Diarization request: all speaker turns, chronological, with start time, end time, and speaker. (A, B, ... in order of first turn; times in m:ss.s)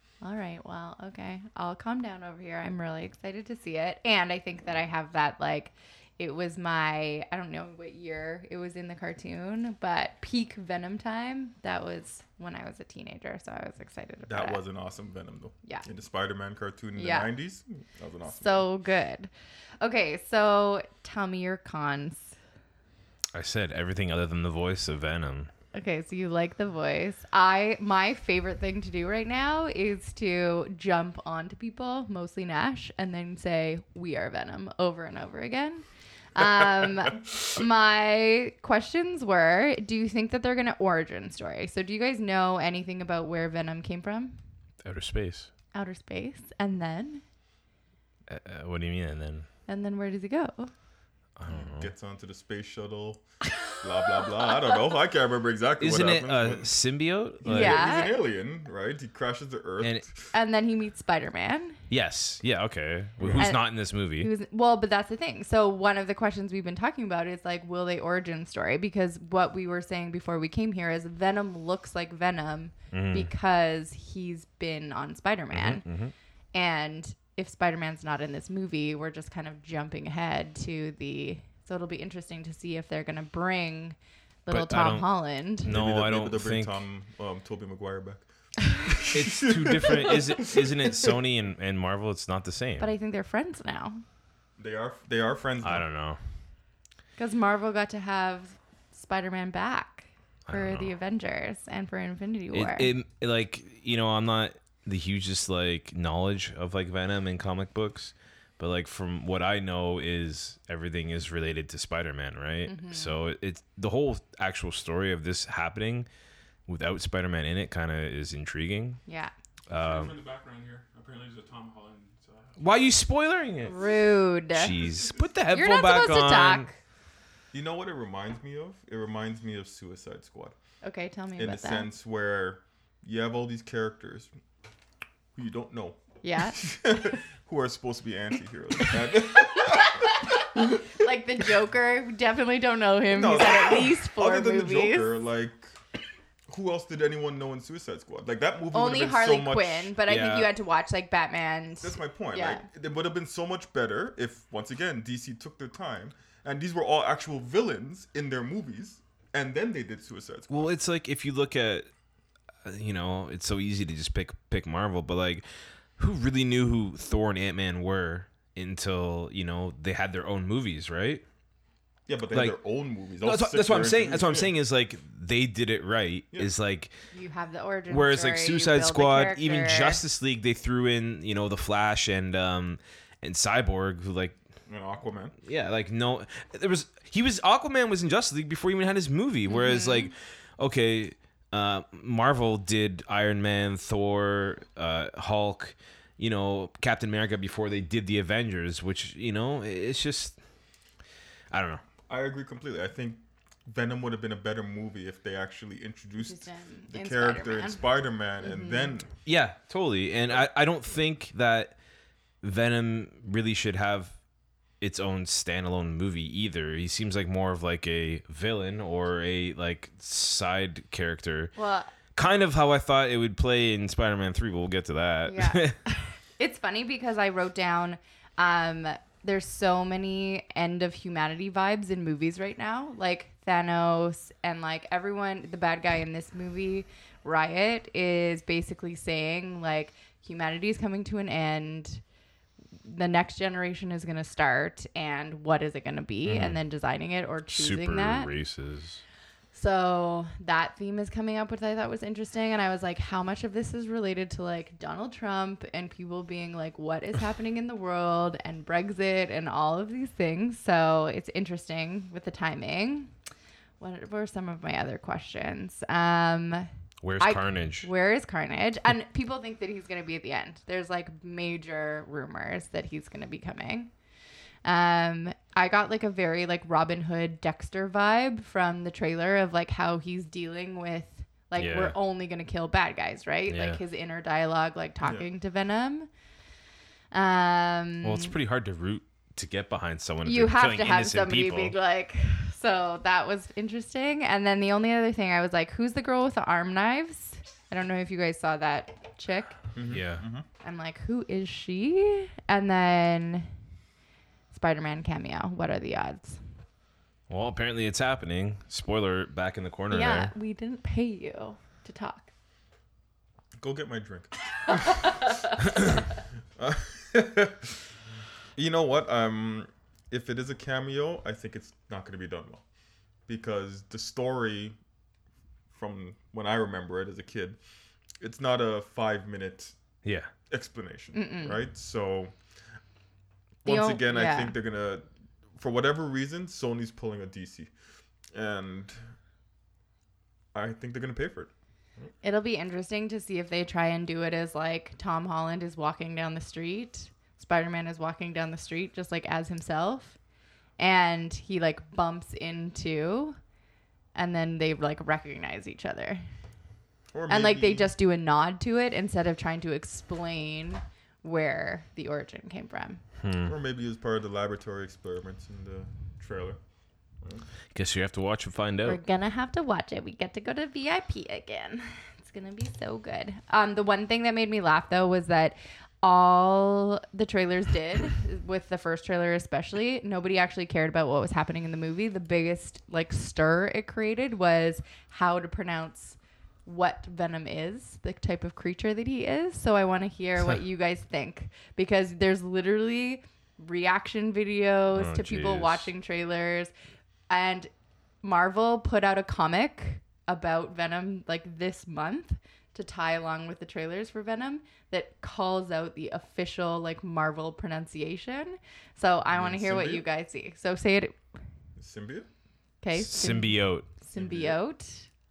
0:00.2-0:14.6 A
0:14.2-0:18.7 B
0:17.0-0:17.3 A
0:18.3-0:19.3 A
0:19.8-0:22.4 A
0:23.3-0:25.5 C
0:25.7-0:44.4 A
0:44.8-0:45.5 C
0:45.7-0:47.2 A
0:48.3-0:49.4 C
0:49.7-0:50.7 A
0:51.4-0:51.9 C
0:51.5-0:53.2 B
0:53.7-0:56.7 B
0:55.8-0:57.9 C
0:57.4-1:00.1 B
0:57.5-0:58.2 A
0:59.8-1:00.0 C
1:00.3-1:01.8 A
1:01.9-1:04.3 C
1:03.2-1:03.5 B
1:03.4-1:03.7 A
1:04.2-1:15.8 A
1:12.9-1:13.3 C
1:15.5-1:16.1 C
1:16.5-1:25.7 A
1:24.5-1:25.1 C
1:25.6-1:26.8 C
1:25.6-1:28.3 B
1:28.8-1:31.1 B
1:29.1-1:32.9 C
1:32.8-1:34.0 A
1:34.6-1:35.8 B
1:35.6-1:36.2 C
1:37.2-1:42.9 A
1:40.5-1:40.9 C
1:42.5-1:56.1 C
1:52.6-1:53.2 A
1:56.7-1:59.0 C
1:59.0-1:59.3 A
1:59.7-2:00.2 C
1:59.7-2:02.6 D
2:02.6-2:03.7 C
2:03.6-2:04.7 A
2:04.5-2:06.7 C
2:04.9-2:05.3 D
2:05.5-2:06.7 A
2:07.5-2:10.6 B
2:10.8-2:11.9 A
2:11.4-2:14.3 B
2:15.4-2:20.8 B
2:16.2-2:16.6 A
2:19.4-2:25.1 A
2:23.1-2:25.7 B
2:26.5-2:29.9 B
2:28.7-2:32.6 A
2:30.1-2:30.5 C
2:31.8-2:40.7 B
2:40.5-2:41.9 C
2:42.6-2:45.4 C
2:46.0-2:51.2 C
2:52.1-2:54.5 B
2:52.3-2:52.6 C
2:53.2-2:56.9 C
2:57.1-3:00.0 A
2:57.9-3:04.4 C
3:04.7-3:05.3 B
3:05.4-3:20.4 C
3:09.5-3:10.1 A
3:21.5-3:21.8 C
3:22.1-3:29.1 B
3:26.2-3:27.8 A
3:28.4-3:28.9 A
3:29.2-3:31.7 C
3:32.4-3:34.1 C
3:34.8-3:41.5 C
3:41.6-3:41.9 A
3:42.1-3:45.8 C
3:45.2-4:02.0 A
4:02.8-4:08.3 A
4:06.2-4:06.6 C
4:07.5-4:09.0 C
4:09.5-4:23.1 A
4:23.8-4:26.7 A
4:27.0-4:27.9 C
4:27.2-4:33.9 A
4:34.6-4:46.1 A
4:41.6-4:41.9 C
4:43.5-4:43.8 C
4:45.0-4:45.3 B
4:47.1-4:48.3 A
4:48.0-4:51.7 C
4:50.2-4:59.6 A
4:59.7-5:00.4 B
4:59.9-5:00.2 C
5:00.6-5:03.5 A
5:04.5-5:06.4 A
5:07.3-5:10.3 C
5:09.9-5:12.3 A
5:13.6-5:14.9 B
5:14.7-5:15.8 A
5:16.6-5:17.7 B
5:18.6-5:22.6 B
5:23.3-5:24.8 B
5:25.7-5:27.6 B
5:28.2-5:29.7 B
5:30.0-5:30.3 C
5:30.5-5:32.3 B
5:31.1-5:31.6 A
5:33.6-5:34.6 A
5:33.6-5:35.0 B
5:35.6-5:37.7 B
5:38.3-5:39.0 B
5:40.5-5:42.1 B
5:42.2-5:50.2 A
5:50.8-5:53.4 A
5:54.1-5:56.2 A
5:57.1-5:57.9 B
5:57.3-6:03.0 A
6:03.2-6:03.5 C
6:03.4-6:06.6 B
6:07.7-6:09.0 C
6:08.8-6:36.7 A
6:34.9-6:35.9 C
6:37.3-6:37.7 A
6:38.2-6:51.2 A
6:49.3-6:50.0 B
6:51.8-6:52.3 B
6:52.8-6:55.1 A
6:52.9-6:53.9 C
6:54.1-6:54.6 B